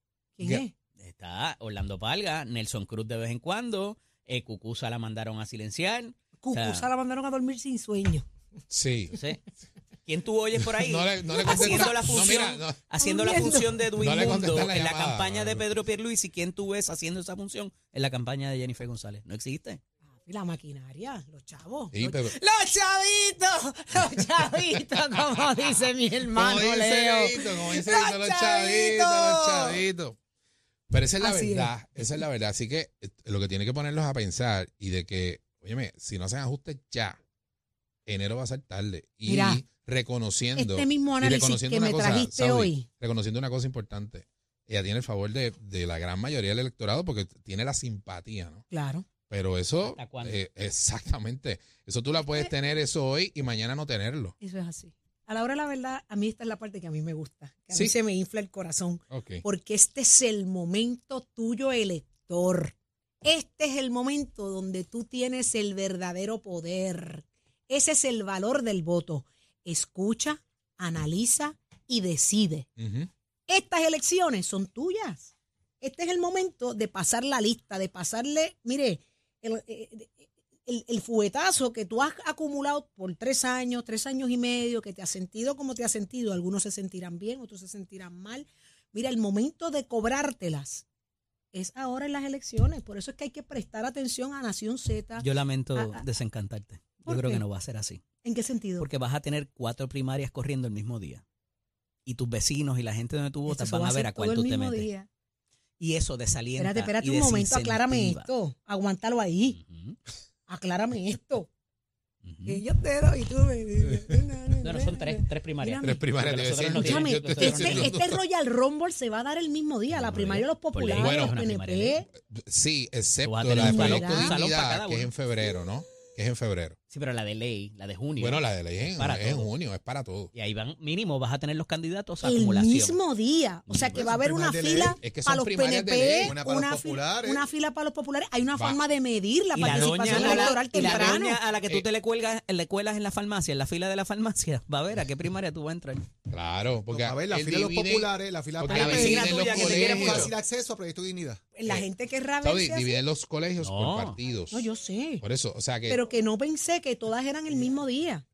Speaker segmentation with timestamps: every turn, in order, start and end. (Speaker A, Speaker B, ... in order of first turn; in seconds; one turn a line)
Speaker A: 0.4-0.7
Speaker B: 0.4-0.7
Speaker C: 1.0-6.9
Speaker A: 6.4-8.3
Speaker B: 8.7-9.2
Speaker C: 9.2-9.4
Speaker C: 10.1-19.8
Speaker B: 10.7-12.8
Speaker A: 11.3-12.3
Speaker A: 13.0-13.8
Speaker B: 14.0-15.7
Speaker A: 20.2-29.8
Speaker B: 21.9-22.4
Speaker B: 26.3-30.2
Speaker B: 30.9-37.2
Speaker A: 31.2-31.7
Speaker B: 38.1-48.6
Speaker A: 39.3-39.6
Speaker A: 40.6-42.9
Speaker A: 48.7-49.1
Speaker B: 49.3-54.4
Speaker C: 49.9-50.4
Speaker A: 54.4-72.7
Speaker B: 59.1-59.4
Speaker B: 72.8-73.1
Speaker A: 73.5-75.3
Speaker A: 75.8-90.8
Speaker A: 91.5-96.0
Speaker C: 95.2-98.0
Speaker A: 97.0-97.4
Speaker A: 98.2-98.9
Speaker C: 98.8-101.2
Speaker C: 102.1-104.9
Speaker A: 103.5-105.1
Speaker C: 105.8-108.3
Speaker A: 106.6-109.6
Speaker C: 109.6-110.0
Speaker A: 110.5-111.5
Speaker C: 112.2-112.6
Speaker A: 112.5-116.0
Speaker C: 114.6-118.0
Speaker B: 115.8-118.2
Speaker A: 116.7-122.1
Speaker C: 120.0-122.0
Speaker B: 120.9-121.4
Speaker B: 122.2-126.8
Speaker C: 123.2-125.1
Speaker A: 123.6-124.4
Speaker C: 126.9-128.4
Speaker B: 128.2-130.3
Speaker C: 129.0-129.5
Speaker C: 130.3-133.0
Speaker A: 132.2-141.4
Speaker D: 133.9-135.0
Speaker B: 135.0-136.4
Speaker D: 136.2-137.5
Speaker B: 138.6-138.8
Speaker C: 139.6-146.1
Speaker B: 139.9-141.9
Speaker B: 146.3-150.3
Speaker D: 146.9-151.4
Speaker C: 148.7-150.3
Speaker A: 151.6-153.0
Speaker B: 152.4-154.7
Speaker C: 153.6-154.2
Speaker A: 154.5-155.2
Speaker B: 155.2-156.0
Speaker A: 155.9-158.2